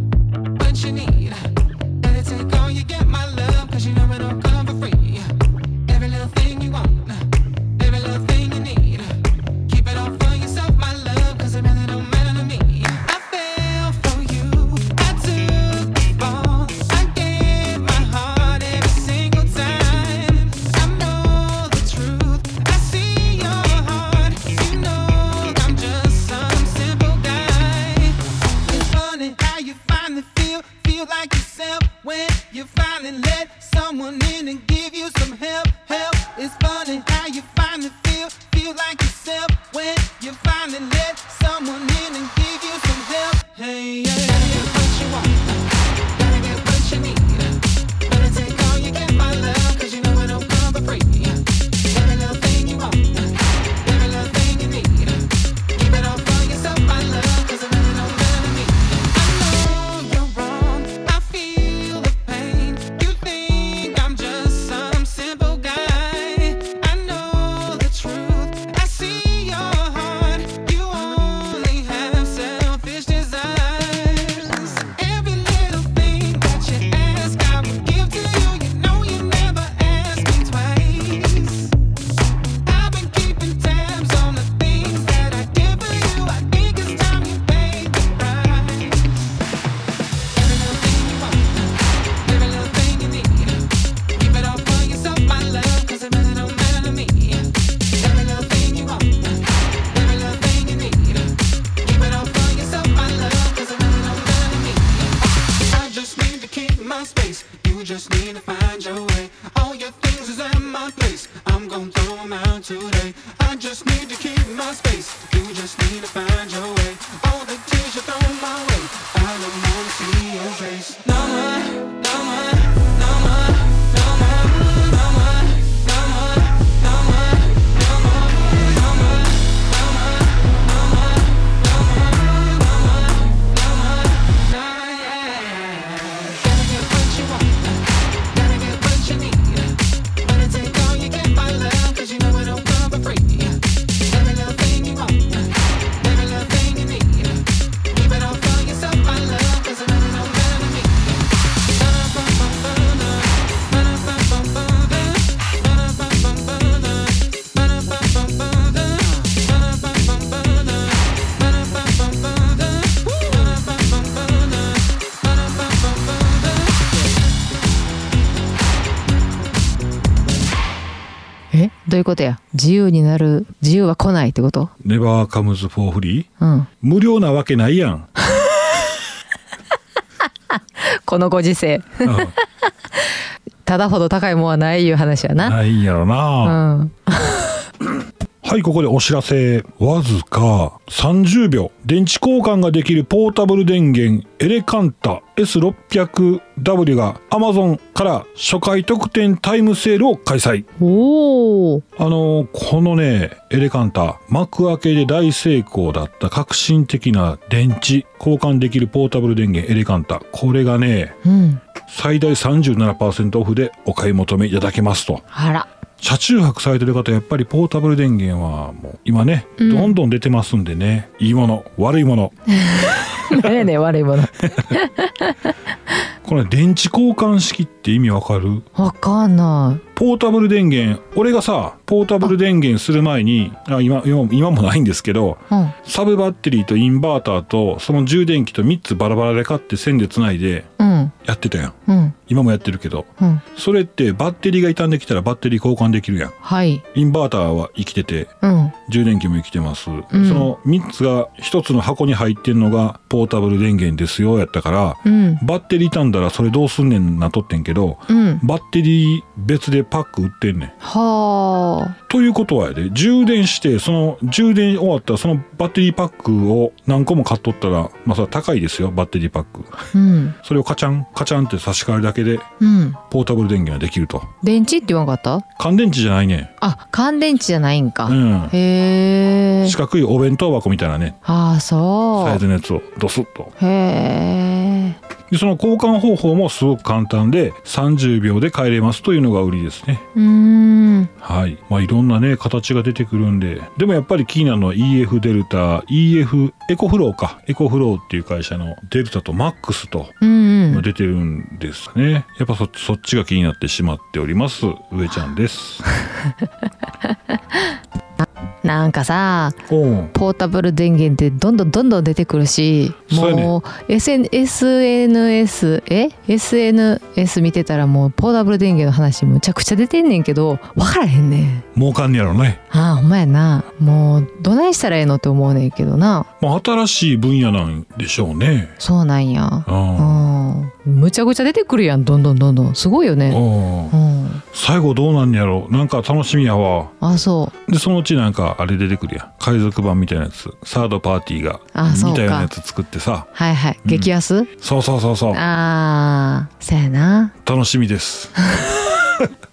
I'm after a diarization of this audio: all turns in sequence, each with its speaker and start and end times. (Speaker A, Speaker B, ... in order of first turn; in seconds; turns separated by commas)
Speaker A: 0.5-81.7, Speaker A: 82.6-89.3, Speaker A: 90.3-167.1, Speaker B: 171.5-174.7, Speaker C: 174.8-176.3, Speaker B: 176.4-176.7, Speaker C: 176.8-178.1, Speaker B: 180.8-182.4, Speaker C: 182.0-182.3, Speaker B: 183.6-185.6, Speaker C: 185.4-186.6, Speaker B: 186.4-187.6, Speaker C: 188.4-200.7, Speaker B: 200.8-201.8, Speaker C: 201.9-211.2, Speaker B: 211.2-211.6, Speaker C: 211.9-215.2, Speaker B: 215.3-215.7, Speaker C: 216.0-223.6, Speaker B: 219.6-220.0, Speaker B: 222.6-225.5, Speaker C: 226.2-228.7, Speaker B: 228.8-229.8, Speaker C: 229.9-240.7, Speaker B: 240.8-241.1, Speaker C: 241.2-246.3, Speaker B: 241.9-242.2, Speaker B: 246.4-246.8, Speaker C: 246.9-260.7, Speaker B: 248.4-248.7, Speaker B: 250.1-250.5, Speaker B: 255.0-255.4, Speaker B: 258.1-258.4, Speaker B: 260.8-261.9, Speaker C: 262.1-269.9, Speaker B: 269.9-270.4, Speaker C: 270.4-272.4, Speaker B: 272.6-273.0, Speaker C: 273.1-274.3, Speaker B: 274.4-275.4, Speaker C: 275.6-276.5, Speaker B: 276.6-279.8, Speaker C: 278.1-278.5, Speaker C: 279.6-281.2, Speaker B: 281.2-282.4, Speaker C: 282.2-283.5, Speaker B: 283.6-285.0, Speaker C: 285.3-290.0, Speaker B: 290.1-291.1, Speaker C: 291.2-300.1, Speaker B: 300.2-300.8, Speaker C: 300.7-305.8, Speaker B: 307.1-307.7, Speaker B: 308.2-309.6, Speaker C: 309.7-310.1, Speaker B: 310.1-321.6, Speaker C: 313.1-313.5, Speaker C: 321.7-322.6, Speaker B: 322.7-326.3, Speaker C: 326.4-328.8, Speaker B: 328.8-334.4, Speaker C: 329.6-330.3, Speaker C: 333.3-333.9, Speaker C: 334.5-336.9, Speaker B: 337.0-337.5, Speaker C: 337.7-343.3, Speaker B: 341.7-342.5, Speaker B: 343.3-344.5, Speaker C: 343.8-345.4, Speaker B: 345.3-347.3, Speaker C: 347.4-348.3, Speaker B: 348.4-349.2